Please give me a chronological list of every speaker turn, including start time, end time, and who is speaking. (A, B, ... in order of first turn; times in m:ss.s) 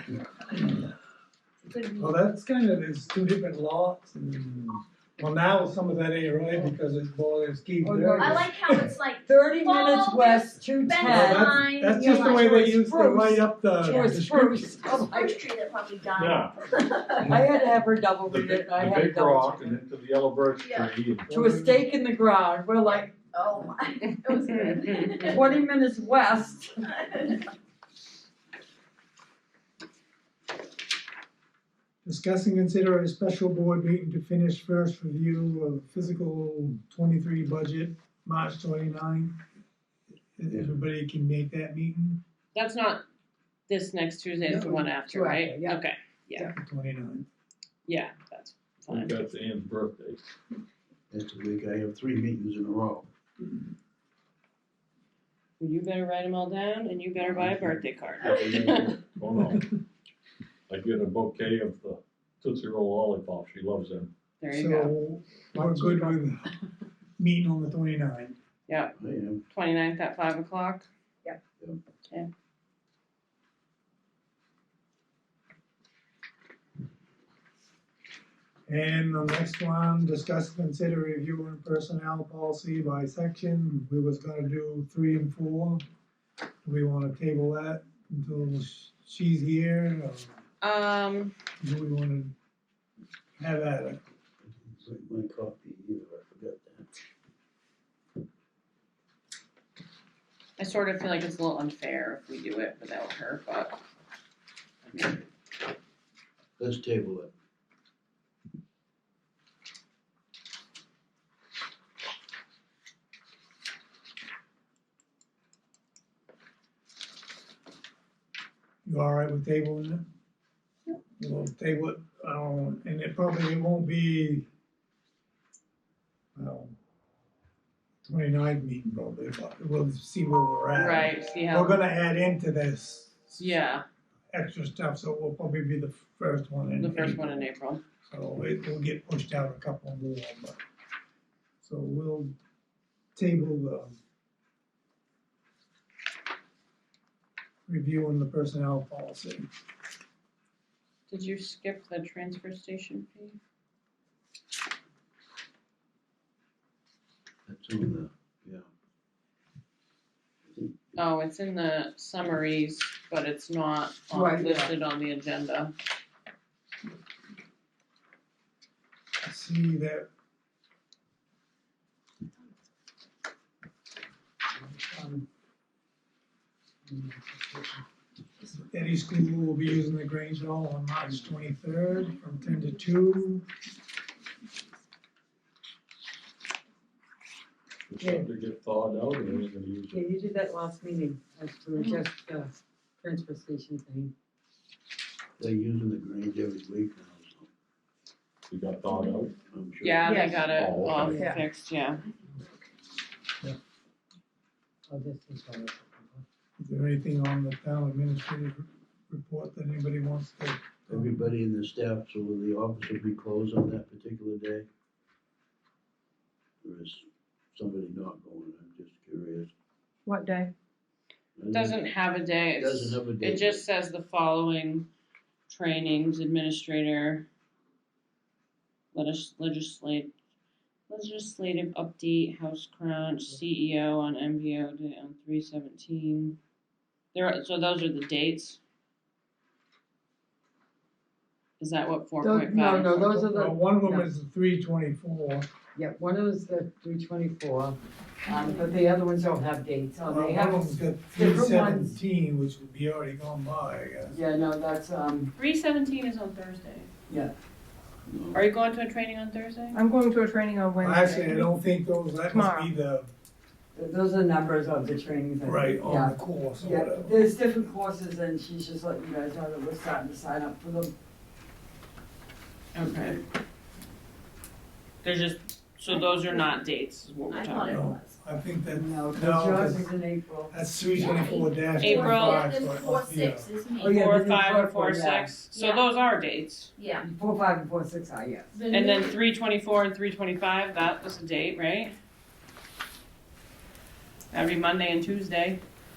0:01.6-0:02.2 A
0:02.0-0:08.9 B
0:07.8-0:08.5 C
0:08.2-0:12.5 A
0:09.3-0:15.3 C
0:11.1-0:14.9 B
0:14.8-0:17.4 A
0:16.2-0:16.5 D
0:17.2-0:19.7 C
0:18.2-0:21.3 D
0:20.6-0:21.0 A
0:21.3-0:21.8 B
0:21.3-0:23.2 C
0:23.3-0:25.6 A
0:24.3-0:25.4 E
0:25.2-0:26.7 C
0:26.8-0:27.4 A
0:32.0-0:39.4 B
0:40.4-0:42.2 B
0:40.5-0:40.8 F
0:42.5-0:43.0 E
0:43.7-0:46.5 E
0:44.5-0:45.8 C
0:46.6-0:47.3 B
0:47.9-0:49.1 E
0:48.9-0:50.3 D
0:51.1-0:53.1 F
0:55.6-0:59.0 E
0:57.2-0:57.7 F
0:58.2-0:59.6 D
1:00.7-1:04.1 D
1:04.4-1:05.0 E
1:04.5-1:06.5 B
1:07.2-1:08.4 B
1:08.7-1:09.0 E
1:09.0-1:09.4 F
1:09.5-1:10.9 E
1:18.7-1:25.8 B
1:26.6-1:30.4 B
1:30.6-1:31.3 E
1:31.6-1:32.4 B
1:33.4-1:34.0 B
1:34.4-1:36.9 F
1:40.6-1:43.8 E
1:44.9-1:45.2 E
1:46.6-1:47.3 F
1:58.8-2:00.0 B
2:01.2-2:04.5 B
2:06.4-2:06.8 B
2:08.1-2:13.5 B
2:10.7-2:11.8 E
2:13.4-2:13.8 E
2:14.3-2:17.4 B
2:16.8-2:17.8 E
2:18.1-2:20.6 B
2:21.6-2:22.3 B
2:23.2-2:24.0 B
2:27.7-2:29.5 B
2:31.1-2:33.4 E
2:37.5-2:38.7 F
2:40.5-2:41.0 F
2:41.0-2:45.7 E
2:44.1-2:44.7 C
2:49.2-2:50.1 B
2:54.6-2:55.3 C
2:56.9-2:57.8 C
2:58.6-3:03.4 B
3:07.9-3:10.0 D
3:08.0-3:08.3 C
3:09.9-3:14.1 C
3:15.4-3:17.5 F
3:18.5-3:19.4 D
3:19.5-3:20.3 F
3:19.8-3:22.0 E
3:20.0-3:20.5 G
3:20.4-3:21.4 D
3:21.0-3:21.4 G
3:24.9-3:26.2 C
3:26.6-3:31.3 B
3:30.9-3:34.6 F
3:36.6-3:39.5 F
3:40.1-3:40.5 G
3:41.4-3:41.8 F
3:41.5-3:44.9 E
3:42.6-3:43.6 F
3:45.5-3:47.2 E
3:48.9-3:50.1 E
3:50.9-3:56.4 E
3:57.1-3:58.6 E
4:01.6-4:03.3 E
4:02.2-4:04.1 C
4:03.3-4:05.5 B
4:05.8-4:12.0 C
4:10.1-4:14.2 B
4:14.1-4:15.3 C
4:15.4-4:16.9 E
4:17.1-4:17.3 C
4:18.1-4:18.4 F
4:18.3-4:19.8 E
4:19.7-4:21.5 G
4:20.8-4:23.1 B
4:22.3-4:22.7 G
4:23.8-4:30.9 C
4:25.4-4:27.2 B
4:32.7-4:33.2 E
4:35.0-4:37.8 E
4:37.3-4:38.2 A
4:37.7-4:39.9 B
4:38.7-4:40.5 C
4:40.5-4:43.5 B
4:41.0-4:44.0 A
4:41.8-4:42.5 E
4:43.8-4:45.3 C
4:43.8-4:46.7 E
4:45.5-4:45.8 A
4:46.8-4:47.1 A
4:47.0-4:48.6 C
4:48.5-4:49.2 A
4:48.7-4:51.9 E
4:54.3-4:55.6 E